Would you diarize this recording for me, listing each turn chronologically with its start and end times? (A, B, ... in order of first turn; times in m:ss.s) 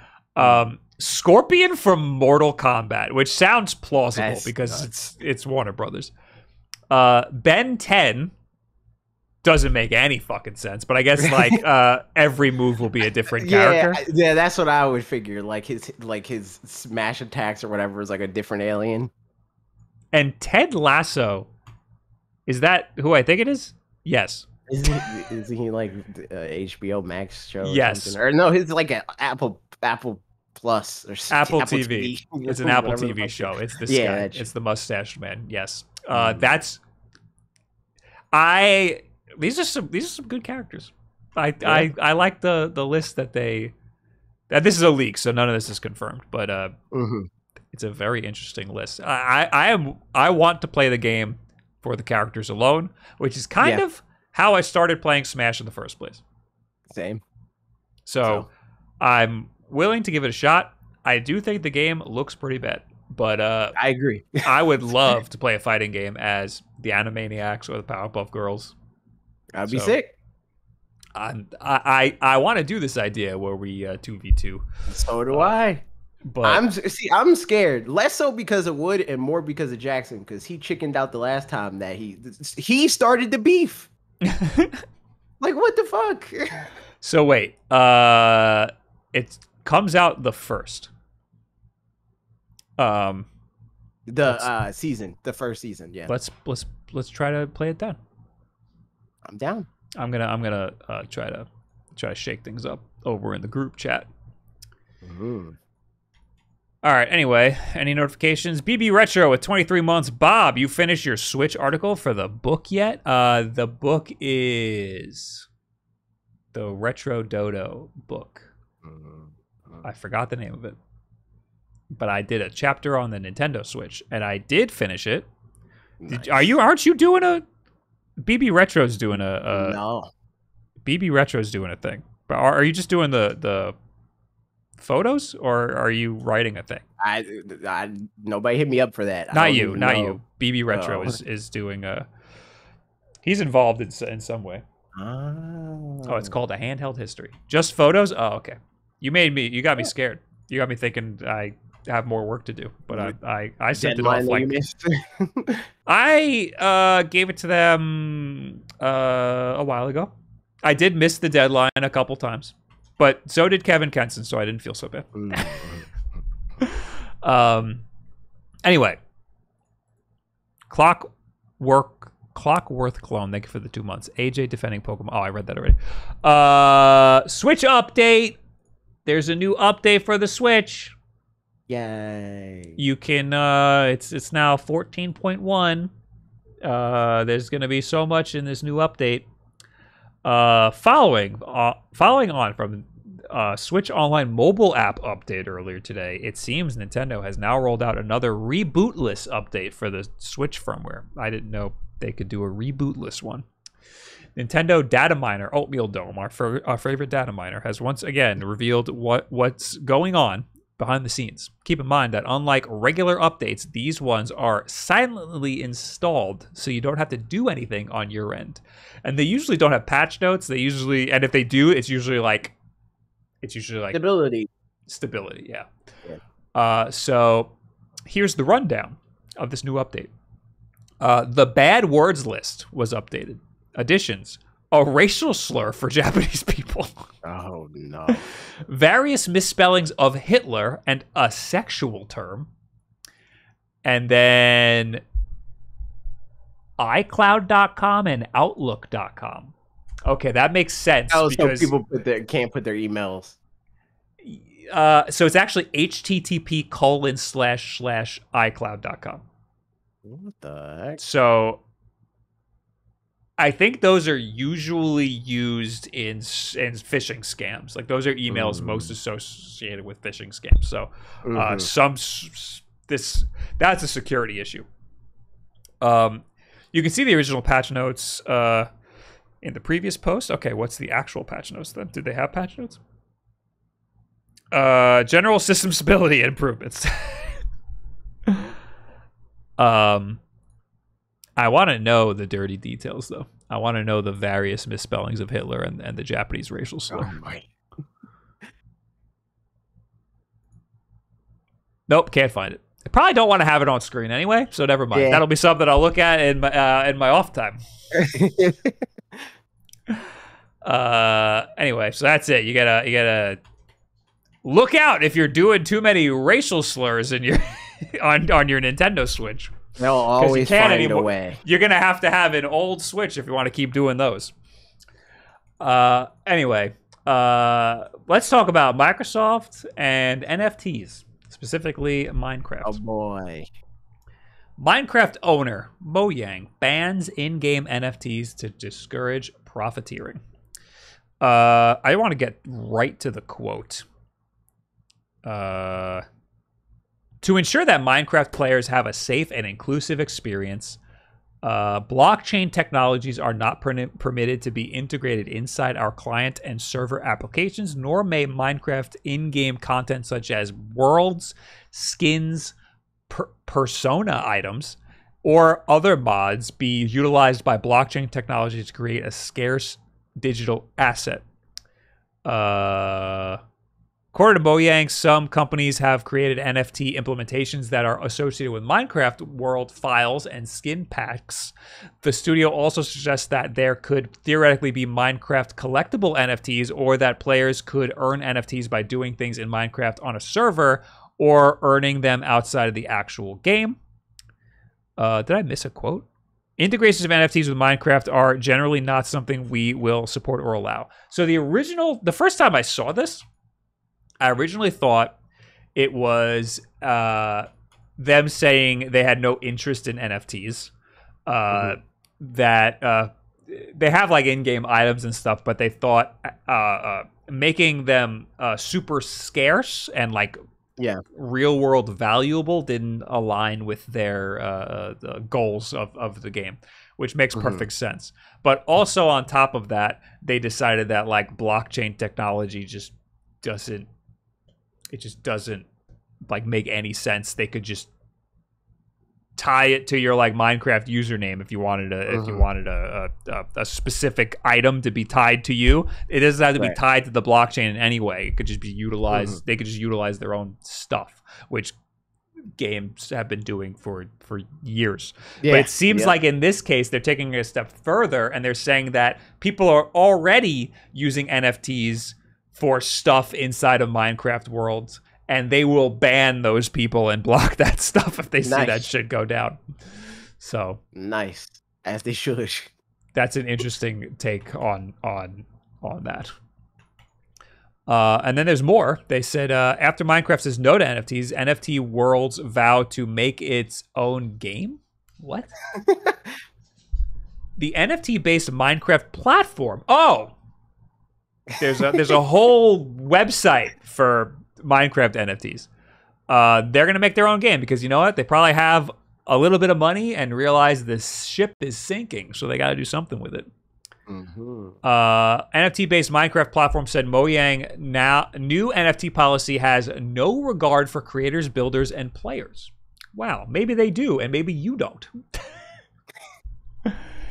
0:00.3-0:06.1 A
0:04.2-0:04.9 B
0:06.9-0:08.3 A
0:09.4-0:14.0 A
0:11.2-0:11.6 B
0:13.3-0:19.1 B
0:20.1-0:21.5 A
0:22.5-0:24.5 A
0:24.7-0:34.5 B
0:27.6-0:28.2 A
0:31.3-0:36.8 A
0:36.1-0:36.5 B
0:38.3-0:43.7 A
0:41.6-0:41.9 B
0:44.5-0:46.7 A
0:46.9-0:47.3 B
0:47.7-0:56.2 A
0:56.9-0:57.2 B
0:58.0-0:58.5 A
0:59.0-1:03.8 A
1:03.8-1:04.5 B
1:04.4-1:08.7 A
1:09.5-1:10.1 B
1:09.6-1:10.0 A
1:11.1-1:14.6 A
1:14.9-1:15.8 B
1:15.3-1:15.5 A
1:16.3-1:16.6 A
1:16.4-1:23.9 B
1:24.2-1:24.8 A
1:25.4-1:26.7 B
1:27.0-1:30.9 A
1:32.8-1:33.3 A
1:34.1-1:36.1 B
1:36.1-1:38.0 A
1:39.2-1:39.7 B
1:40.0-1:44.1 A
1:45.0-1:45.6 B
1:46.8-1:55.5 A
1:56.5-1:58.5 A
1:58.8-1:59.8 B
1:59.8-2:00.8 A
2:01.9-2:05.3 A
2:06.0-2:06.5 B
2:06.1-2:07.4 A
2:08.2-2:09.8 A
2:09.5-2:10.1 B
2:10.8-2:13.8 A
2:14.8-2:16.8 A
2:17.0-2:20.2 B
2:19.3-2:22.1 A
2:20.7-2:21.2 B
2:23.2-2:24.6 A
2:24.9-2:26.3 B
2:26.0-2:34.5 A
2:33.7-2:35.6 B
2:35.8-2:40.1 A
2:40.6-2:45.7 A
2:45.1-2:45.8 B
2:46.6-2:47.8 A
2:48.6-2:49.0 A
2:50.7-2:58.4 A
2:59.0-3:00.9 A
3:01.7-3:02.8 B
3:02.8-3:05.9 A
3:06.6-3:09.3 A
3:10.2-3:23.4 A
3:24.4-3:42.5 A
3:43.4-3:44.0 A
3:43.9-3:44.5 B
3:44.9-3:45.7 A
3:46.5-3:47.5 A
3:48.0-3:50.1 A
3:51.0-3:57.1 A
3:57.2-3:58.2 B
3:58.6-4:02.5 A
4:03.8-4:05.0 A
4:06.8-4:09.5 A
4:10.0-4:11.7 A
4:11.1-4:13.4 B
4:14.2-4:19.2 A
4:20.0-4:21.0 B
4:21.0-4:21.6 A
4:23.4-4:34.6 A
4:28.3-4:28.9 B
4:31.2-4:31.7 B
4:35.8-4:38.7 A
4:39.4-4:42.8 A
4:44.5-4:47.4 A
4:49.6-4:50.2 A
4:51.4-4:57.1 A
4:56.9-4:57.5 B
5:01.9-5:07.6 A
5:04.9-5:05.2 B
5:07.9-5:09.2 B
5:10.6-5:13.4 A
5:14.4-5:19.6 A
5:19.8-5:21.4 B
5:20.2-5:24.3 A
5:25.6-5:32.8 A
5:32.6-5:33.5 B
5:34.6-5:40.2 A
5:41.2-5:43.8 A
5:45.2-5:46.0 A
5:47.2-5:50.8 A
5:51.4-6:02.5 A
6:03.1-6:11.2 A
6:12.2-6:13.4 A
6:14.1-6:33.8 A
6:35.0-6:36.1 A
6:36.6-6:43.2 A
6:44.2-6:45.2 A
6:45.8-6:50.7 A
6:51.3-7:00.4 A
7:01.1-7:13.9 A
7:07.3-7:07.6 B
7:14.9-7:15.7 A
7:16.2-7:17.9 A
7:19.4-7:31.8 A
7:22.1-7:22.4 B
7:29.1-7:29.4 B
7:32.6-7:50.8 A
7:35.4-7:36.1 B
7:48.4-7:48.9 B
7:50.9-7:52.7 B
7:53.1-7:56.3 A
7:57.9-8:05.5 A
8:05.7-8:06.2 B
8:07.6-8:10.3 A
8:11.6-8:15.7 A
8:16.3-8:23.5 A
8:24.1-8:24.8 B
8:24.8-8:35.1 A